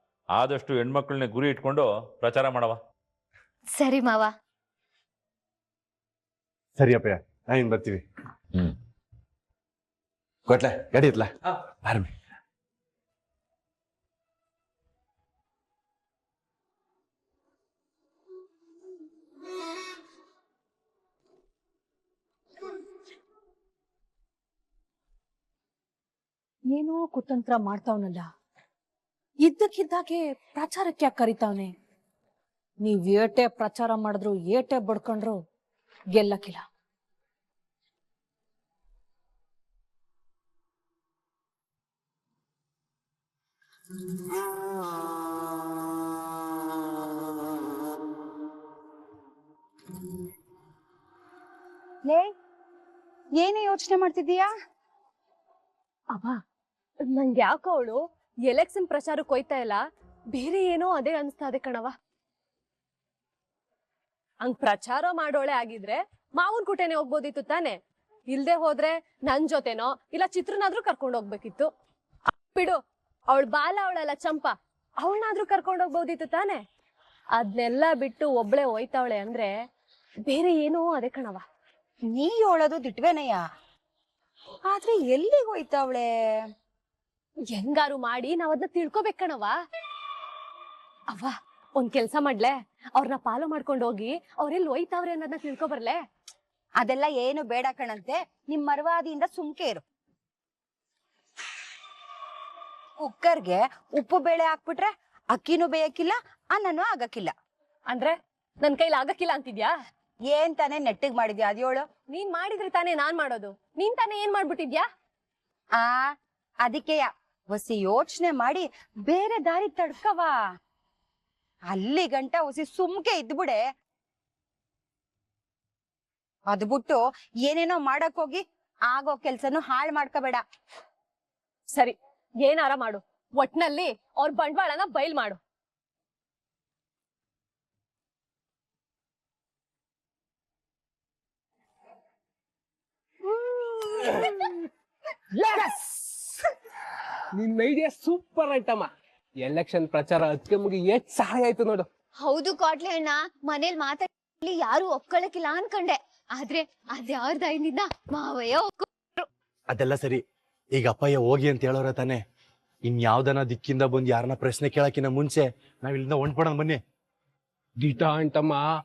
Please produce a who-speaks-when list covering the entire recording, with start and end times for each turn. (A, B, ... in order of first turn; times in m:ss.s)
0:00.4-0:02.8 A
0:06.8-0:08.0 B
0:10.5-0:11.3 B
0:11.8-0:12.1 B
0:26.7-0:28.3 C
0:29.4-0:31.7 C
0:32.8-0:35.4 C
0:36.1-0:36.6 C
0:52.0-0:52.3 D
0:53.4-0:54.5 D
0:57.1-0:59.8 E
1:00.3-1:01.9 E
1:04.4-1:07.8 E
1:08.3-1:11.7 E
1:12.5-1:12.8 E
1:13.3-1:16.6 E
1:17.4-1:19.5 E
1:20.3-1:21.4 E
1:22.1-1:23.4 D
1:24.6-1:26.1 D
1:27.5-1:29.5 E
1:31.1-1:36.0 E
1:36.8-1:39.8 D
1:43.0-1:47.3 D
1:47.9-1:49.7 E
1:50.3-1:51.9 D
1:52.1-1:54.8 E
1:56.6-2:00.4 D
2:01.7-2:03.6 D
2:06.5-2:10.4 D
2:11.7-2:15.4 E
2:25.4-2:26.3 F
2:27.4-2:28.9 F
2:29.4-2:31.9 F
2:32.2-2:39.2 G
2:39.7-2:40.2 B
2:40.8-2:42.2 B
2:42.8-2:46.8 B
2:47.8-2:48.6 F